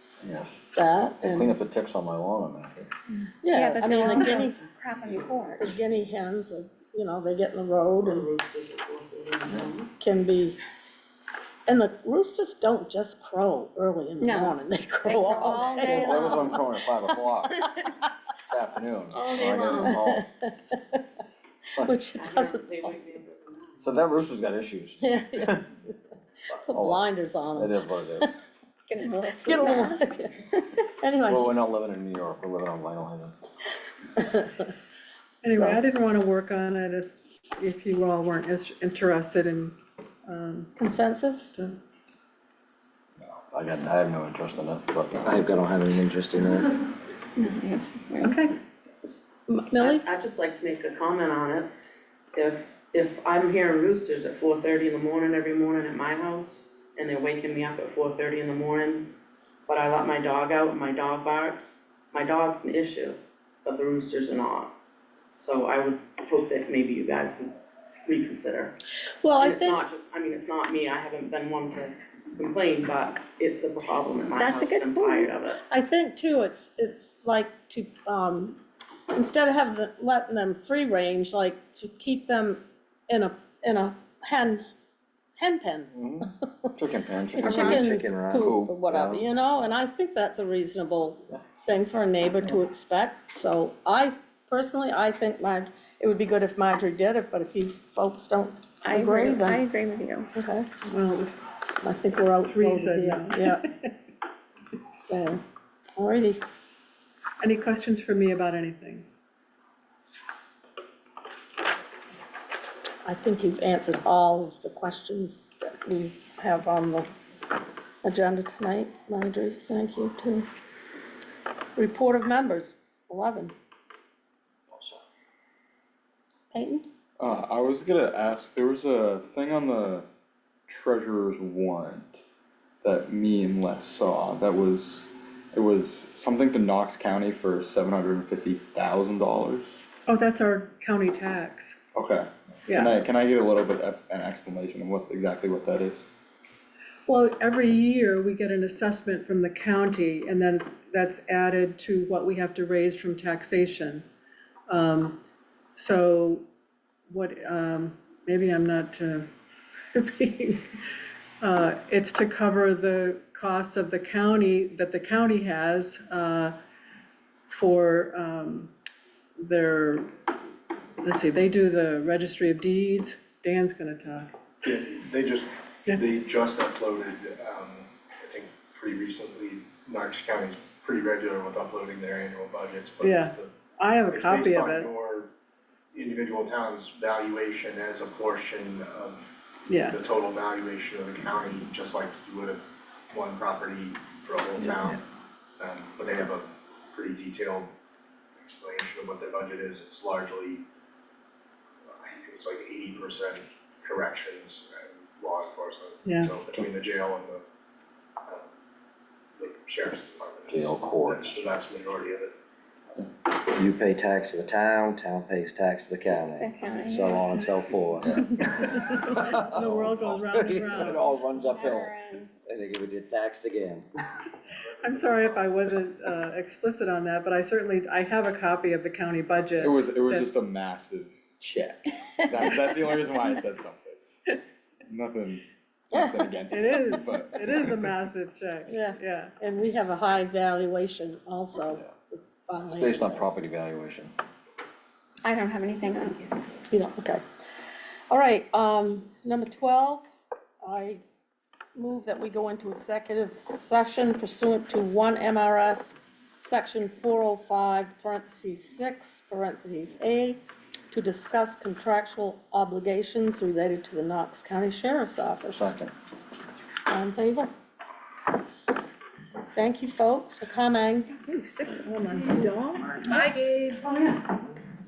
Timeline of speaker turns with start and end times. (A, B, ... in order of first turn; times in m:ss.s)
0:00.2-0:00.6 A
0:00.7-0:01.5 B
0:01.2-0:02.9 A
0:03.4-0:04.6 B
0:03.5-0:05.8 C
0:05.6-0:08.3 B
0:08.0-0:09.9 D
0:10.0-0:10.6 B
0:11.7-0:17.9 B
0:14.2-0:17.9 C
0:16.0-0:17.5 A
0:18.4-0:20.2 A
0:19.1-0:20.0 C
0:19.8-0:20.4 B
0:21.8-0:22.9 B
0:22.1-0:23.9 D
0:23.8-0:25.6 A
0:25.0-0:25.9 B
0:26.5-0:28.3 B
0:26.7-0:28.3 A
0:28.9-0:30.1 C
0:29.4-0:31.6 B
0:31.2-0:33.3 A
0:34.2-0:34.7 B
0:35.4-0:39.8 E
0:35.4-0:35.8 B
0:40.3-0:40.7 E
0:40.8-0:41.5 B
0:43.5-0:45.2 A
0:45.2-0:46.7 F
0:47.3-0:48.4 C
0:48.2-0:48.5 E
0:49.5-0:50.0 B
0:49.8-0:51.7 D
0:52.3-0:59.1 D
0:59.6-1:04.7 D
1:05.4-1:07.5 D
1:08.0-1:08.7 D
1:09.2-1:09.8 B
1:09.4-1:15.6 D
1:14.3-1:15.3 C
1:15.7-1:18.6 B
1:19.1-1:24.6 B
1:25.4-1:25.9 B
1:25.9-1:27.8 A
1:27.4-1:39.6 B
1:27.4-1:29.1 F
1:28.4-1:28.8 A
1:38.8-1:40.3 C
1:40.3-1:40.7 B
1:40.8-1:41.4 E
1:41.8-1:43.6 B
1:42.4-1:43.9 E
1:45.0-1:45.4 B
1:46.0-1:46.4 B
1:47.4-1:49.0 E
1:53.0-1:57.1 B
1:58.0-2:00.5 B
2:01.8-2:03.5 B
2:06.5-2:06.8 B
2:07.2-2:10.0 G
2:10.7-2:12.1 G
2:12.8-2:19.7 G
2:20.1-2:21.8 E
2:21.9-2:26.0 G
2:22.7-2:22.9 E
2:27.1-2:34.0 E
2:34.7-2:35.2 E
2:35.7-2:36.4 E
2:37.1-2:39.2 E
2:39.9-2:40.8 E
2:41.4-2:46.5 E
2:47.5-2:48.7 E
2:49.4-2:50.1 E
2:51.0-2:54.4 E
2:54.6-3:03.5 H
3:03.0-3:04.9 E
3:04.0-3:05.3 H
3:05.9-3:09.3 H
3:09.7-3:10.0 E
3:09.9-3:15.0 H
3:15.6-3:17.7 H
3:18.4-3:20.6 H
3:21.8-3:27.4 H
3:26.0-3:26.4 E
3:29.4-3:32.3 H
3:30.5-3:31.3 A
3:33.3-3:43.9 F
3:36.3-3:37.5 C
3:38.7-3:41.0 E
3:40.8-3:42.4 C
3:44.8-3:50.3 E
3:44.9-3:45.5 H
3:49.6-3:54.0 G
3:54.9-3:57.9 G
3:56.5-3:59.3 E
3:58.7-4:03.4 B
4:02.7-4:04.1 A
4:05.2-4:06.4 C
4:06.7-4:07.2 B
4:08.1-4:10.0 B
4:10.6-4:11.0 B
4:11.8-4:20.4 B
4:20.9-4:25.7 B
4:25.5-4:25.9 A
4:26.9-4:27.5 B
4:29.5-4:31.1 B
4:31.1-4:33.9 C
4:31.6-4:33.3 E
4:33.8-4:34.2 E